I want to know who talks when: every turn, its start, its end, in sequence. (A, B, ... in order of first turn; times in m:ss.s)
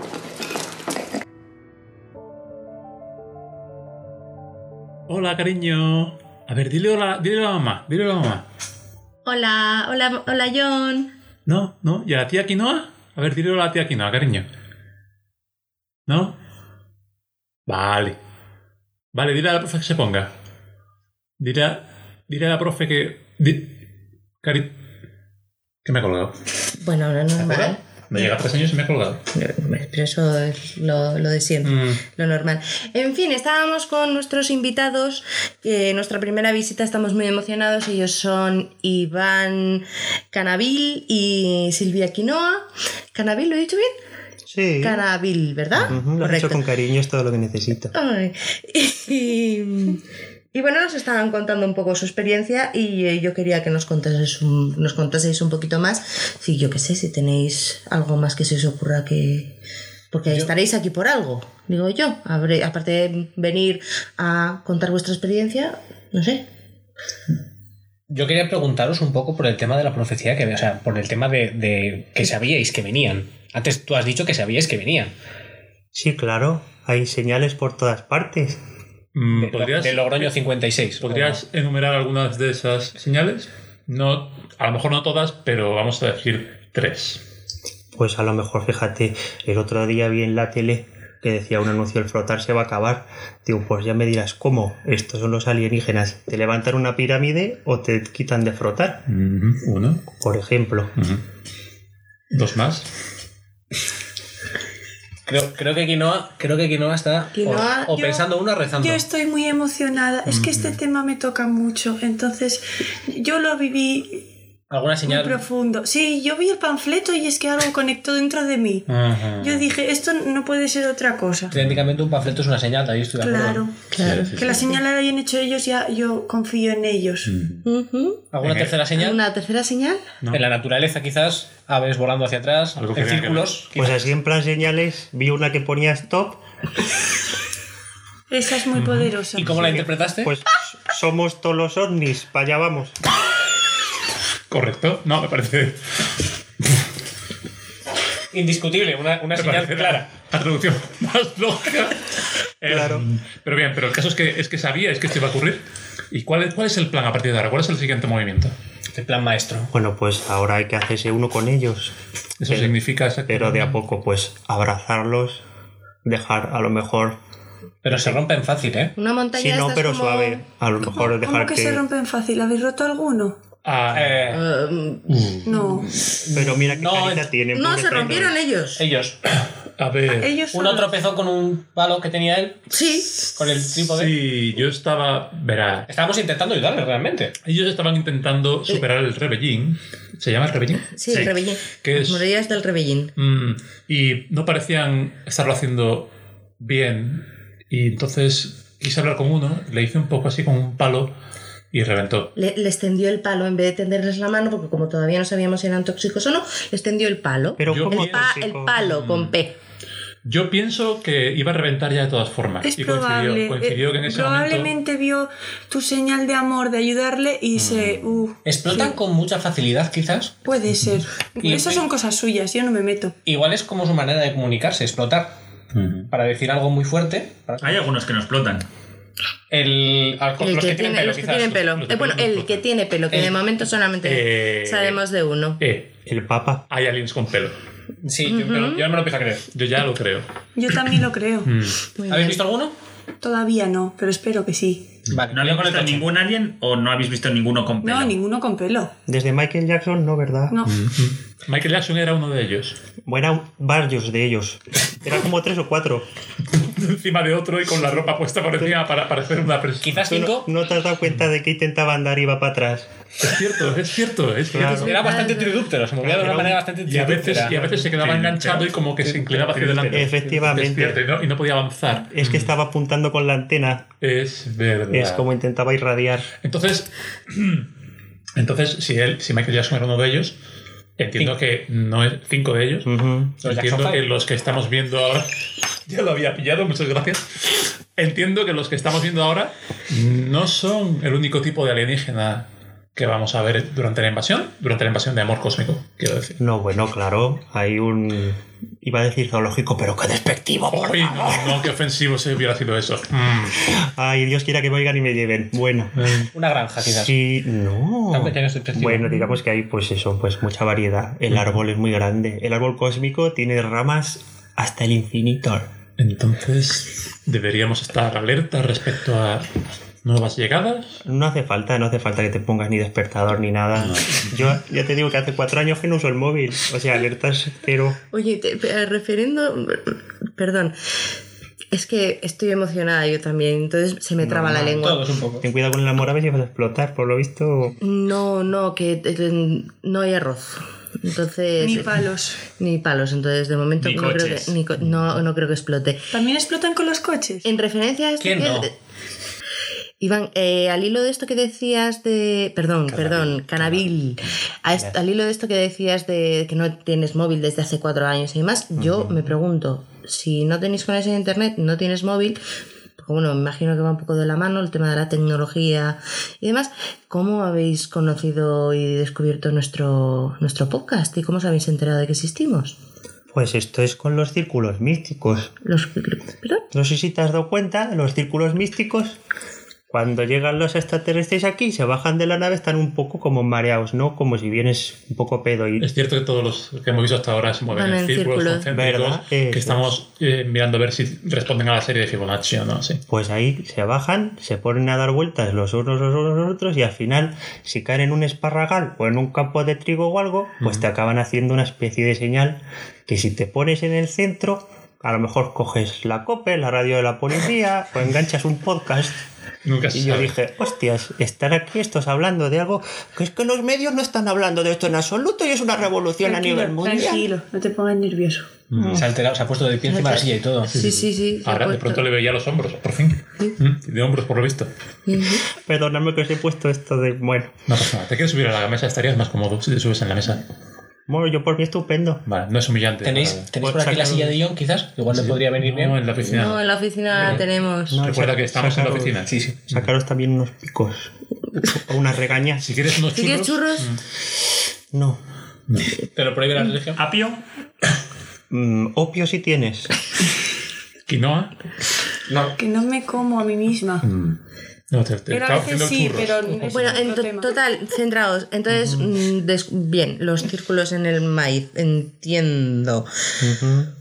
0:05.1-0:08.4 A
0:09.2-0:11.1 B
0:11.4-0:14.5 A
0:16.1-0:16.4 A
0:17.7-0:18.2 A
0:19.1-0:20.3 A
0:21.4-0:23.7 A
0:24.4-0:24.7 A
0:25.8-0:26.4 A
0:26.8-0:28.3 B
0:27.4-0:29.2 A
0:29.3-0:43.9 B
0:31.6-0:32.0 A
0:44.5-0:45.0 C
0:44.8-0:46.6 B
0:45.8-0:47.9 C
0:47.9-0:50.0 B
0:50.5-0:59.6 B
1:00.1-1:06.5 B
1:08.1-1:15.1 D
1:15.9-1:18.6 C
1:19.1-1:20.4 A
1:19.3-1:21.4 D
1:21.0-1:27.2 A
1:27.9-1:39.0 C
1:39.1-1:40.0 A
1:40.1-1:41.0 C
1:41.0-1:41.2 A
1:42.3-1:42.9 A
1:45.3-1:49.0 D
1:47.3-1:48.2 B
1:48.8-1:54.3 E
1:50.3-1:50.8 A
1:54.7-1:55.4 D
1:55.0-2:01.5 E
1:58.9-1:59.7 A
2:01.5-2:01.8 A
2:01.5-2:03.7 D
2:03.2-2:07.3 E
2:03.9-2:04.5 B
2:03.9-2:04.8 A
2:07.2-2:07.6 A
2:07.6-2:08.2 B
2:08.3-2:09.2 D
2:08.4-2:08.8 A
2:08.9-2:10.1 B
2:10.3-2:14.1 D
2:12.8-2:13.7 A
2:13.7-2:16.4 C
2:18.3-2:19.6 E
2:18.7-2:19.6 A
2:19.4-2:20.3 D
2:19.5-2:23.0 C
2:24.5-2:25.8 A
2:28.3-2:30.1 D
2:29.3-2:32.0 A
2:32.6-2:38.5 A
2:32.7-2:33.0 C
2:38.9-2:39.7 D
2:39.7-2:41.9 C
2:42.4-2:43.8 A
2:42.5-2:45.4 C
2:46.0-2:47.2 C
2:47.8-2:48.9 D
2:47.9-2:48.2 C
2:49.0-2:50.4 B
2:49.3-2:51.8 C
2:50.9-2:53.4 E
2:53.6-2:54.4 A
2:53.9-2:54.4 D
2:54.3-2:55.6 B
2:55.1-2:55.7 A
2:55.4-2:55.9 E
2:56.1-2:57.3 D
2:56.3-2:58.4 C
2:57.5-2:58.8 B
2:58.8-2:59.2 D
2:59.4-3:00.4 A
3:00.1-3:01.0 E
3:00.5-3:04.2 D
3:02.7-3:03.3 B
3:03.8-3:05.9 A
3:05.9-3:07.3 D
3:07.4-3:12.3 A
3:11.0-3:13.1 B
3:13.2-3:21.1 A
3:21.7-3:22.3 A
3:22.4-3:29.6 B
3:27.6-3:28.8 C
3:27.6-3:29.3 A
3:30.2-3:34.7 A
3:32.6-3:39.0 E
3:37.6-3:38.1 A
3:38.4-3:40.5 D
3:40.4-3:43.2 E
3:41.4-3:41.8 D
3:43.2-3:45.4 D
3:45.7-3:46.1 A
3:46.1-3:47.8 D
3:47.6-3:48.7 F
3:49.5-3:51.6 D
3:50.4-3:55.6 B
3:51.4-3:52.6 A
3:54.0-3:55.0 A
3:55.6-3:56.0 A
3:56.0-3:56.6 C
3:56.7-3:57.6 A
3:58.0-3:59.4 D
3:58.3-3:58.8 B
3:59.5-4:01.8 A
4:00.5-4:01.5 E
4:01.9-4:02.4 B
4:02.1-4:02.7 D
4:03.2-4:05.0 E
4:05.1-4:06.1 D
4:05.3-4:08.2 F
4:07.8-4:08.9 E
4:09.1-4:10.6 C
4:10.5-4:10.8 E
4:10.7-4:12.8 A
4:13.0-4:16.1 C
4:16.5-4:20.0 A
4:19.8-4:20.5 D
4:20.0-4:22.9 C
4:23.2-4:25.3 A
4:24.5-4:25.4 C
4:24.7-4:25.6 B
4:24.7-4:30.6 D
4:26.0-4:26.7 C
4:26.8-4:32.6 A
4:29.9-4:31.0 C
4:32.1-4:33.9 C
4:34.0-4:35.2 A
4:34.9-4:36.3 C
4:36.4-4:37.7 A
4:38.4-4:40.4 A
4:41.0-4:42.9 A
4:42.8-4:43.4 C
4:43.4-4:45.3 A
4:43.4-4:44.0 D
4:45.9-4:47.4 A
4:48.0-4:56.4 A
4:56.4-5:01.7 C
5:00.7-5:03.6 A
5:03.7-5:05.9 C
5:06.0-5:06.3 A
5:06.3-5:07.2 D
5:06.8-5:15.7 C
5:08.1-5:09.3 D
5:11.3-5:11.6 A
5:16.0-5:21.0 A
5:21.0-5:28.0 C
5:23.8-5:24.6 A
5:28.1-5:30.7 B
5:31.7-5:35.0 B
5:34.3-5:35.5 D
5:34.3-5:34.9 C
5:35.4-5:37.8 C
5:37.8-5:46.0 B
5:41.6-5:42.4 E
5:43.8-5:44.5 F
5:46.1-5:47.5 E
5:47.4-5:48.7 B
5:48.2-5:48.7 D
5:50.0-6:02.4 B
5:52.9-5:53.8 A
5:58.8-5:59.1 A
6:03.0-6:12.8 B
6:13.3-6:15.5 C
6:15.6-6:16.6 B
6:16.7-6:19.2 C
6:19.9-6:25.8 C
6:25.8-6:33.0 A
6:27.7-6:28.7 B
6:28.7-6:29.9 C
6:33.1-6:49.2 C
6:49.6-6:50.3 A
6:49.9-6:57.2 C
6:56.2-6:58.6 E
6:58.7-6:59.1 A
6:58.8-6:59.0 B
6:58.9-7:00.7 D
6:59.9-7:02.0 B
7:00.6-7:04.7 A
7:05.1-7:05.4 B
7:05.6-7:07.5 C
7:07.7-7:10.4 A
7:11.1-7:12.2 C
7:12.2-7:13.5 A
7:13.0-7:16.0 D
7:13.6-7:14.4 C
7:15.1-7:17.4 A
7:16.3-7:18.0 B
7:17.9-7:21.1 C
7:18.0-7:19.9 A
7:19.2-7:19.6 D
7:21.6-7:22.7 C
7:22.6-7:24.0 A
7:23.1-7:23.9 B
7:24.9-7:25.2 C
7:25.7-7:25.9 A
7:26.1-7:27.0 D
7:27.0-7:27.4 F
7:28.5-7:29.9 C
7:31.1-7:31.5 A
7:32.6-7:34.0 E
7:34.0-7:34.4 A
7:34.9-7:37.0 A
7:35.3-7:37.6 E
7:36.6-7:43.1 B
7:38.7-7:39.1 C
7:43.4-7:43.9 C